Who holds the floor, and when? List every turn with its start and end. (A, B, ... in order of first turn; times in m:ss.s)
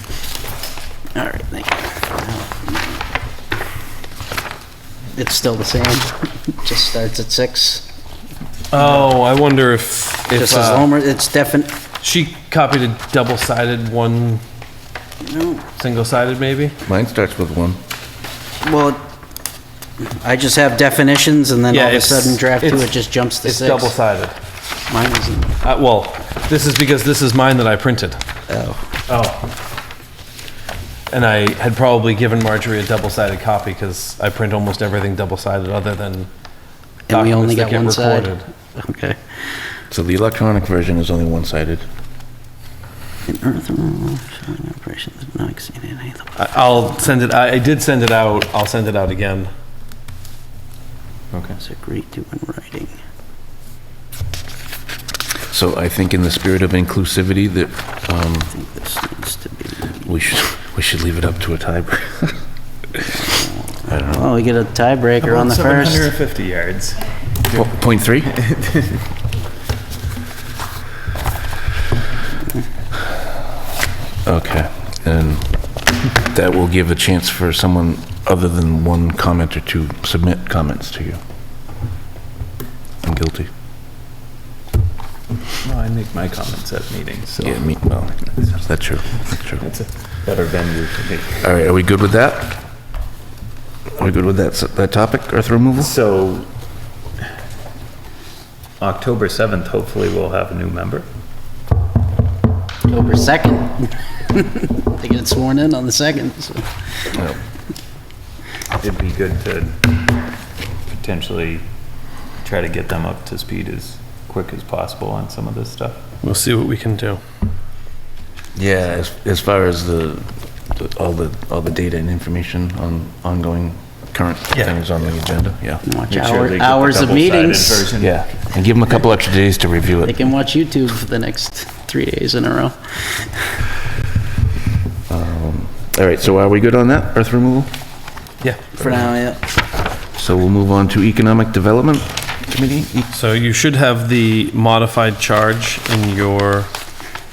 0:01.2-0:03.0 A
0:05.1-0:07.9 A
0:08.7-0:10.9 B
0:10.3-0:11.8 A
0:12.0-0:14.4 B
0:15.2-0:15.6 A
0:15.8-0:16.8 B
0:16.8-0:17.8 C
0:18.6-0:19.1 A
0:20.0-0:23.9 A
0:21.7-0:24.4 B
0:24.9-0:25.6 A
0:25.6-0:28.2 B
0:28.5-0:28.8 A
0:29.1-0:29.5 D
0:31.1-0:36.3 B
0:37.1-0:39.2 A
0:37.1-0:38.5 B
0:39.9-0:41.9 C
0:43.3-0:46.3 A
0:46.4-0:49.5 B
0:51.3-0:51.6 D
0:51.6-0:52.9 A
0:55.5-0:58.6 C
0:58.5-1:00.0 A
1:00.0-1:02.4 C
1:03.8-1:04.3 C
1:04.1-1:06.1 A
1:05.2-1:07.0 D
1:07.5-1:08.3 C
1:08.2-1:09.0 D
1:14.2-1:21.2 C
1:23.0-1:23.5 C
1:25.6-1:27.7 D
1:27.4-1:29.6 C
1:29.6-1:31.5 D
1:31.4-1:32.6 C
1:34.0-1:35.9 C
1:35.8-1:36.5 D
1:38.8-1:41.1 D
1:42.8-1:46.6 A
1:48.8-1:49.9 D
1:50.9-1:51.6 D
1:52.4-1:56.0 D
1:56.2-1:57.2 B
1:58.6-2:05.8 C
2:05.8-2:07.9 A
2:06.1-2:08.2 D
2:08.0-2:10.2 C
2:10.0-2:13.3 A
2:15.1-2:17.7 C
2:18.4-2:18.8 B
2:18.8-2:19.4 A
2:20.2-2:23.1 C
2:23.1-2:26.7 B